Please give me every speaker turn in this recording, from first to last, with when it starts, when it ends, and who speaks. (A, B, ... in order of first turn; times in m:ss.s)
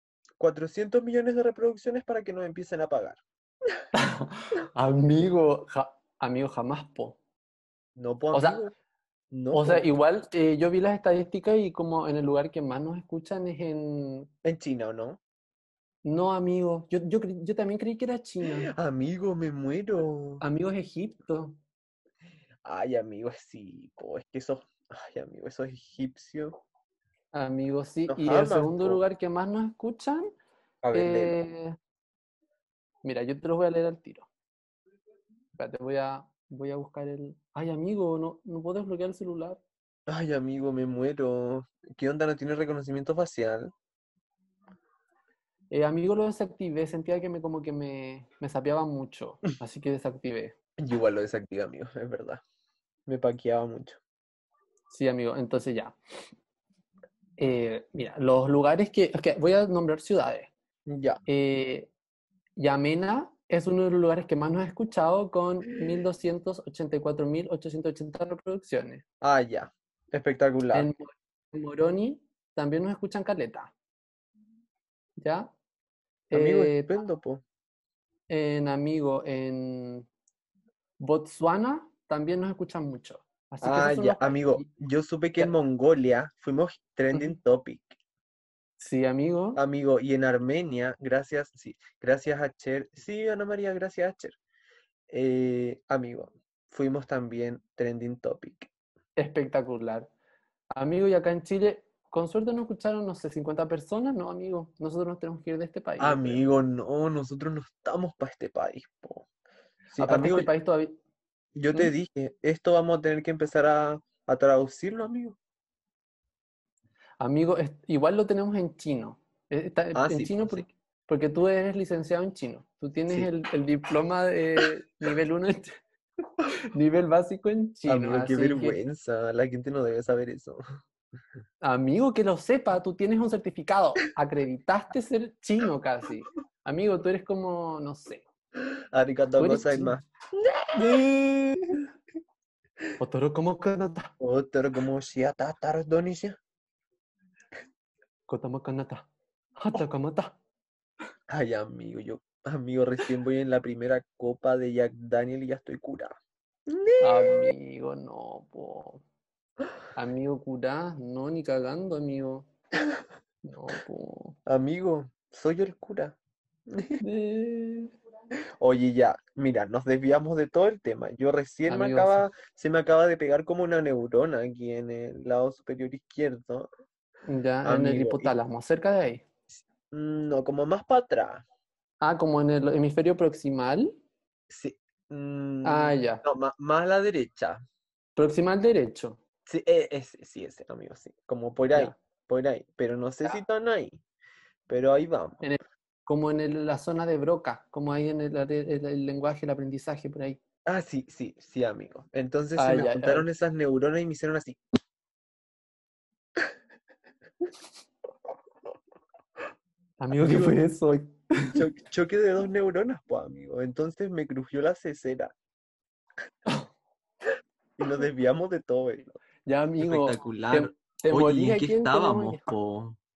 0:00.4-0:03.2 A
0:03.9-0:07.2 B
0:08.0-0:08.7 A
0:08.3-0:08.7 B
0:09.3-0:09.9 A
0:09.5-0:14.3 B
0:14.4-0:15.2 A
0:16.0-0:18.7 B
0:18.5-0:20.4 A
0:20.4-0:21.6 B
0:22.6-0:26.6 A
0:27.3-0:30.3 B
0:28.1-0:29.0 A
0:30.8-0:31.4 A
0:30.9-0:31.8 B
0:33.0-0:34.3 B
0:35.6-0:39.6 B
0:40.1-0:43.7 A
0:45.7-0:50.6 B
0:50.8-0:52.4 A
0:53.1-0:54.0 A
0:54.9-0:56.0 B
0:57.4-1:00.5 B
1:00.9-1:01.2 A
1:01.3-1:01.9 B
1:02.6-1:09.0 B
1:09.2-1:10.9 A
1:10.7-1:13.7 B
1:15.2-1:15.5 B
1:16.3-1:16.9 B
1:16.3-1:17.4 A
1:18.3-1:20.1 B
1:21.0-1:24.7 B
1:23.6-1:27.9 A
1:27.1-1:27.4 B
1:28.8-1:29.6 B
1:29.6-1:34.4 A
1:35.1-1:38.7 A
1:39.2-1:40.1 B
1:40.7-1:46.4 B
1:46.0-1:49.3 A
1:49.9-1:50.5 A
1:50.0-1:51.0 B
1:51.6-1:55.4 A
1:57.2-2:05.8 B
1:59.9-2:00.7 A
2:06.6-2:08.8 B
2:07.9-2:10.6 A
2:11.6-2:18.2 B
2:18.9-2:21.8 A
2:19.4-2:20.0 B
2:23.0-2:24.1 B
2:24.2-2:26.4 A
2:28.3-2:30.4 B
2:31.3-2:36.1 A
2:36.7-2:37.5 A
2:37.0-2:39.0 B
2:39.9-2:42.5 B
2:43.4-2:44.4 B
2:44.5-2:46.2 A
2:46.7-2:47.0 A
2:47.0-2:47.9 B
2:48.6-2:56.7 A
2:51.7-2:52.2 B
2:57.3-2:59.2 B
2:57.6-2:58.3 A
2:59.9-3:01.4 A
3:02.0-3:04.0 B
3:04.5-3:07.6 A
3:05.6-3:06.2 B
3:08.2-3:09.2 B
3:09.5-3:14.0 A
3:14.7-3:15.4 A
3:15.4-3:20.4 B
3:20.7-3:24.6 A
3:22.6-3:23.2 B
3:30.0-3:31.6 B
3:30.1-3:30.6 A
3:31.5-3:35.3 A
3:37.8-3:39.2 A
3:39.5-3:42.4 B
3:39.8-3:43.0 A